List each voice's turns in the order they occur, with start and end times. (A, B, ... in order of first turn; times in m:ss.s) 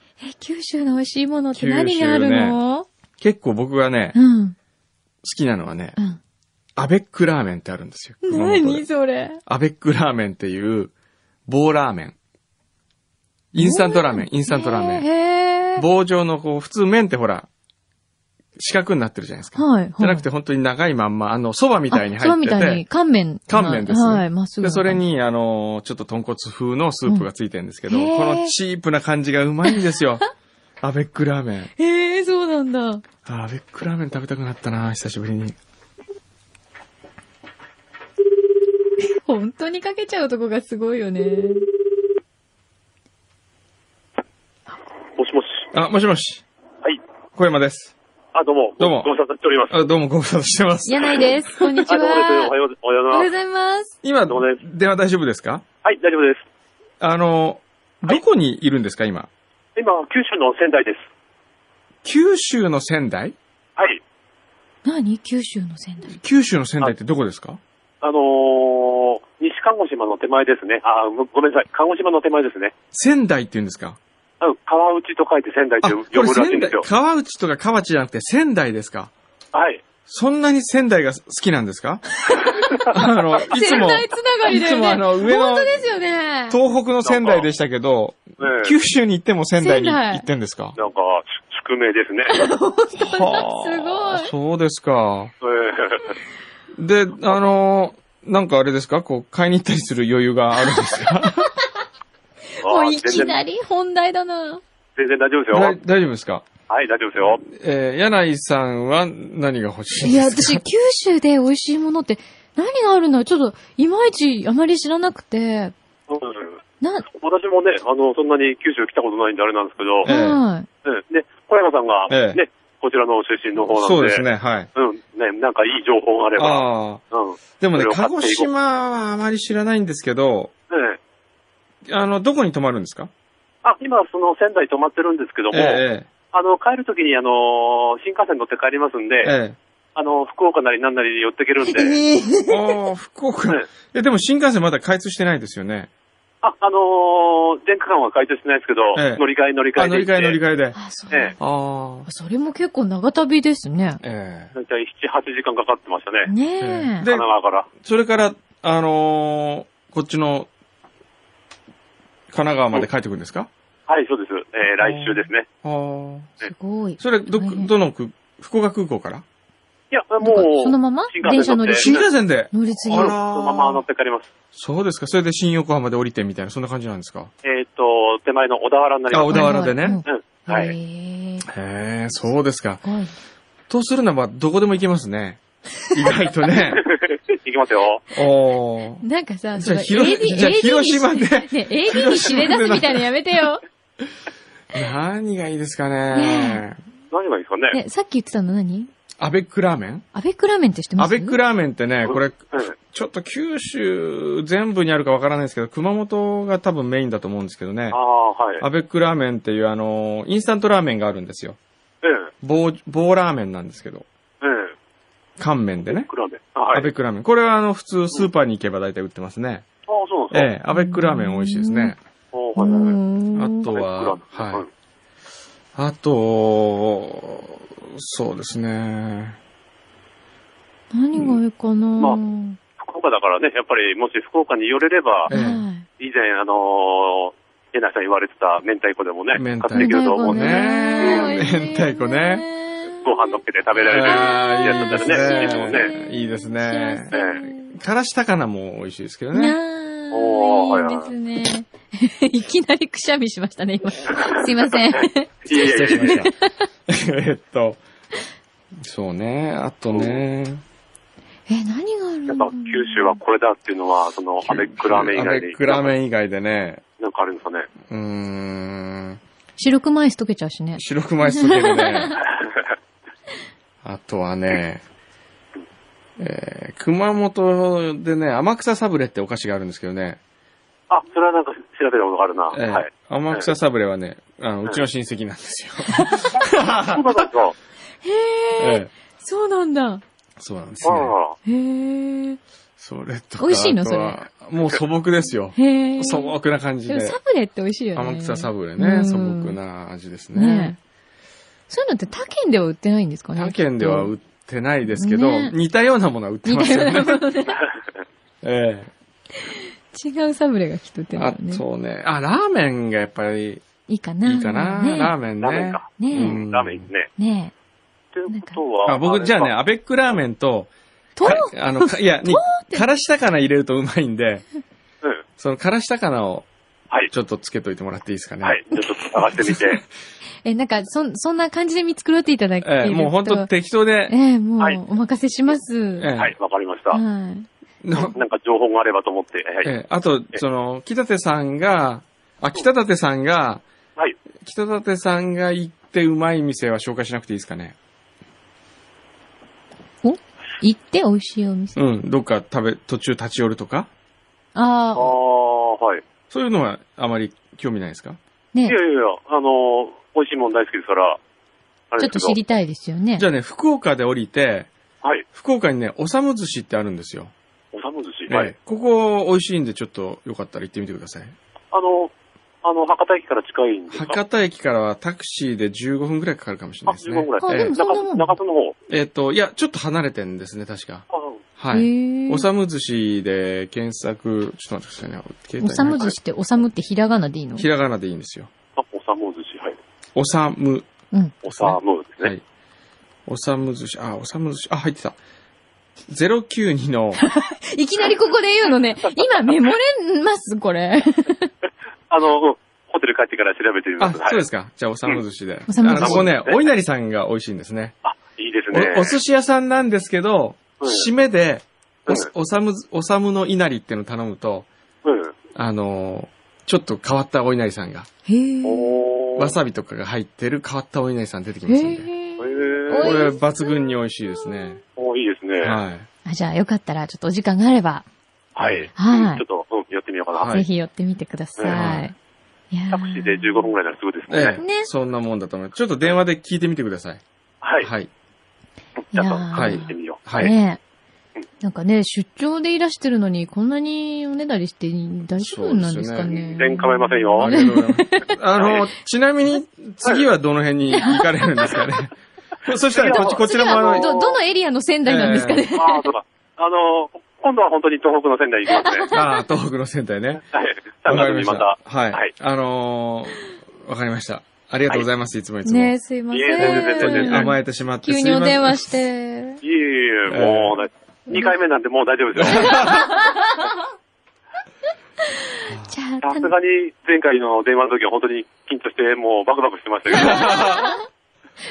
0:00.2-0:02.9 A
0:01.5-0:02.6 B
0:03.2-0:04.2 B
0:04.1-0:04.6 A
0:05.2-0:06.0 B
0:06.8-0:08.8 B
0:08.2-0:09.4 A
0:09.4-0:10.9 B
0:11.5-0:12.2 B
0:13.5-0:15.1 B
0:13.5-0:15.8 A
0:15.8-0:17.5 B
0:18.6-0:22.8 B
0:19.5-0:20.2 A
0:21.9-0:25.0 A
0:23.5-0:30.2 B
0:27.8-0:28.5 A
0:30.8-0:31.7 B
0:31.8-0:33.0 A
0:33.2-0:35.6 B
0:39.1-0:41.6 A
0:45.2-0:45.7 C
0:45.7-0:46.4 B
0:47.4-0:47.9 B
0:48.3-0:49.8 C
0:48.8-0:49.1 B
0:49.7-0:51.8 B
0:50.8-0:52.5 A
0:51.9-0:53.3 C
0:53.1-0:53.9 A
0:54.0-0:55.6 B
0:54.3-0:54.6 C
0:55.8-0:56.4 C
0:57.0-0:59.3 B
0:59.8-1:01.0 C
1:02.0-1:03.4 B
1:04.8-1:06.2 A
1:06.1-1:07.6 B
1:08.0-1:12.7 C
1:12.9-1:14.0 B
1:14.4-1:16.9 C
1:15.8-1:19.1 B
1:19.5-1:19.8 C
1:20.0-1:22.0 B
1:22.3-1:22.8 A
1:22.9-1:25.8 B
1:23.5-1:26.6 A
1:26.5-1:30.8 B
1:27.0-1:27.5 C
1:28.4-1:28.7 C
1:29.6-1:30.2 A
1:30.8-1:32.5 C
1:32.3-1:34.3 A
1:33.1-1:35.3 B
1:35.4-1:36.1 C
1:36.8-1:41.4 B
1:42.6-1:44.6 A
1:42.6-1:43.4 C
1:45.0-1:45.8 C
1:45.5-1:46.5 B
1:46.7-1:47.4 C
1:47.4-1:50.6 B
1:50.0-1:55.7 A
1:56.1-1:56.6 C
1:56.8-1:57.0 A
1:57.1-2:00.1 C
2:00.0-2:00.4 B
2:00.0-2:00.7 A
2:00.8-2:08.5 C
2:02.1-2:02.4 B
2:03.7-2:04.7 B
2:06.4-2:07.0 B
2:07.6-2:10.5 B
2:10.7-2:11.0 C
2:11.8-2:13.1 B
2:13.6-2:19.3 C
2:15.5-2:16.1 B
2:19.2-2:19.6 B
2:20.0-2:22.0 C
2:21.7-2:22.7 A
2:22.5-2:25.9 B
2:26.4-2:30.4 C
2:28.9-2:30.8 B
2:30.7-2:31.4 A
2:31.4-2:32.1 B
2:32.1-2:34.0 A
2:34.0-2:34.5 B
2:34.6-2:36.3 C
2:36.3-2:37.0 A
2:36.6-2:37.3 B
2:37.0-2:37.7 C
2:37.8-2:40.5 B
2:42.3-2:43.5 B
2:43.9-2:45.5 C
2:44.8-2:46.3 B
2:46.4-2:47.7 A
2:47.0-2:49.2 B
2:49.9-2:52.0 C
2:50.2-2:52.0 A
2:51.8-2:53.8 B
2:52.5-2:53.2 A
2:52.9-2:54.3 C
2:54.5-2:57.3 B
2:57.4-3:00.7 C
2:59.1-3:00.0 B
2:59.3-3:01.5 A
3:01.5-3:02.8 B
3:02.8-3:03.1 A
3:03.7-3:05.4 B
3:05.9-3:06.8 B
3:06.0-3:08.0 C
3:08.1-3:09.0 B
3:09.0-3:13.6 A
3:09.6-3:13.1 B
3:14.7-3:16.8 B
3:16.1-3:16.6 A
3:17.1-3:17.8 C
3:17.7-3:18.9 A
3:19.2-3:20.0 B
3:20.1-3:21.4 A
3:21.0-3:28.0 B
3:22.0-3:22.7 C
3:27.9-3:28.6 C
3:28.6-3:31.6 B
3:32.0-3:32.3 C
3:32.4-3:34.1 B
3:34.4-3:34.7 C
3:35.4-3:36.1 B
3:35.8-3:36.9 C
3:36.7-3:39.6 B
3:39.9-3:40.5 C
3:40.3-3:42.0 B
3:40.7-3:41.9 A
3:42.3-3:43.0 C
3:42.6-3:43.7 A
3:43.3-3:44.6 B
3:43.7-3:44.7 C
3:45.8-3:49.4 B
3:50.9-3:52.6 A
3:51.1-3:51.4 B
3:52.8-3:55.3 C
3:55.3-3:55.8 A
3:55.3-3:55.6 B
3:56.0-4:01.3 C
3:59.3-4:02.4 B
3:59.7-4:03.3 A
4:03.0-4:05.9 C
4:03.8-4:09.6 B
4:04.6-4:07.8 A
4:07.1-4:07.4 C
4:09.3-4:16.5 A
4:10.1-4:11.1 C
4:14.1-4:16.2 C
4:15.5-4:16.3 B
4:16.9-4:17.8 B
4:18.8-4:20.6 B
4:19.9-4:20.2 C
4:21.5-4:23.2 A
4:22.3-4:25.9 C
4:24.4-4:26.8 B
4:27.0-4:27.7 C
4:27.9-4:29.2 B
4:29.6-4:32.1 A
4:30.8-4:32.2 B
4:32.2-4:32.6 C
4:33.8-4:34.8 B
4:36.2-4:40.2 B
4:40.9-4:43.5 C
4:42.5-4:47.0 B
4:45.9-4:46.3 A
4:46.8-4:47.5 C
4:48.0-4:50.0 A
4:48.6-4:48.9 B
4:50.4-4:51.1 B
4:50.8-4:51.4 C
4:51.4-4:52.4 A
4:52.8-4:57.2 B
4:53.4-4:54.2 A
4:55.6-4:59.6 A
4:58.0-5:00.8 B
5:00.3-5:00.8 A
5:01.7-5:04.1 A
5:03.4-5:07.2 B
5:04.9-5:05.6 A
5:06.4-5:07.6 A
5:08.4-5:08.9 B
5:09.4-5:11.6 A
5:11.1-5:13.6 B
5:13.9-5:15.2 A
5:14.2-5:16.8 B
5:15.4-5:17.1 C
5:16.0-5:16.4 A
5:17.2-5:17.5 A
5:18.1-5:19.5 C
5:18.3-5:18.6 A
5:18.8-5:24.4 B
5:21.2-5:22.9 A
5:25.4-5:26.5 B
5:27.1-5:28.8 B
5:28.4-5:29.8 C
5:30.4-5:33.5 A
5:32.6-5:34.1 B
5:34.1-5:36.1 A
5:36.0-5:36.3 B
5:36.1-5:37.0 C
5:36.9-5:37.5 A
5:37.8-5:38.2 B
5:38.1-5:39.7 C
5:39.6-5:43.6 B
5:44.4-5:47.8 B
5:50.0-5:51.8 A
5:51.8-5:53.9 B
5:54.5-5:55.1 A
5:55.0-5:56.0 C
5:56.3-5:58.2 B
5:58.6-6:01.2 C
6:01.9-6:02.4 C
6:02.0-6:03.2 A
6:03.2-6:04.7 B
6:05.3-6:07.3 B
6:07.7-6:08.5 C
6:08.3-6:11.4 B
6:11.7-6:12.1 C
6:12.6-6:14.2 C
6:13.9-6:17.7 B
6:16.9-6:18.8 C
6:17.4-6:18.3 A
6:18.9-6:21.0 B
6:21.1-6:21.4 C
6:21.6-6:26.2 B
6:21.7-6:22.4 A
6:25.6-6:27.7 A
6:27.6-6:28.5 B
6:28.8-6:29.8 C
6:30.2-6:30.9 B
6:31.4-6:32.3 C
6:31.5-6:32.4 B
6:33.3-6:35.2 B
6:36.1-6:37.2 B
6:37.2-6:41.5 A
6:39.0-6:39.8 C
6:42.1-6:44.5 C
6:44.0-6:48.0 B
6:45.7-6:46.3 A
6:45.9-6:46.7 C
6:48.0-6:49.2 C
6:48.7-6:54.7 B
6:50.8-6:51.1 C
6:55.0-6:55.3 C
6:55.5-6:58.1 B
6:58.2-6:59.0 A
6:58.6-6:59.6 C
6:59.4-7:02.1 B
7:01.7-7:04.8 A
7:02.4-7:03.3 C
7:03.0-7:04.8 B
7:05.0-7:05.8 C
7:05.6-7:06.1 B
7:06.2-7:08.0 A
7:08.6-7:10.6 C
7:08.6-7:08.9 B
7:09.0-7:09.4 A
7:10.3-7:10.7 B
7:10.5-7:12.2 A
7:11.7-7:12.1 B
7:12.7-7:13.6 A
7:12.9-7:14.6 C
7:14.3-7:17.2 B
7:14.5-7:14.9 A
7:17.6-7:17.9 C
7:17.8-7:18.1 B
7:19.1-7:20.5 C
7:19.1-7:20.8 A
7:19.5-7:20.5 B
7:21.6-7:28.3 A
7:25.4-7:26.7 B
7:26.3-7:27.6 C
7:27.4-7:32.1 B
7:28.6-7:28.8 C
7:30.9-7:31.3 A
7:32.6-7:34.1 B
7:32.9-7:34.4 C
7:33.0-7:36.1 A
7:35.0-7:35.7 B
7:35.8-7:39.1 C
7:38.8-7:39.4 A
7:39.1-7:40.4 B
7:40.5-7:42.3 C
7:41.0-7:46.0 B
7:45.6-7:49.6 A
7:46.3-7:47.5 C
7:46.6-7:48.9 B
7:49.6-7:53.0 C
7:50.3-7:50.8 B
7:52.3-7:53.1 B
7:52.4-7:53.8 A
7:55.6-7:56.5 A
7:56.2-8:00.6 C
8:00.1-8:01.0 B
8:00.1-8:01.0 A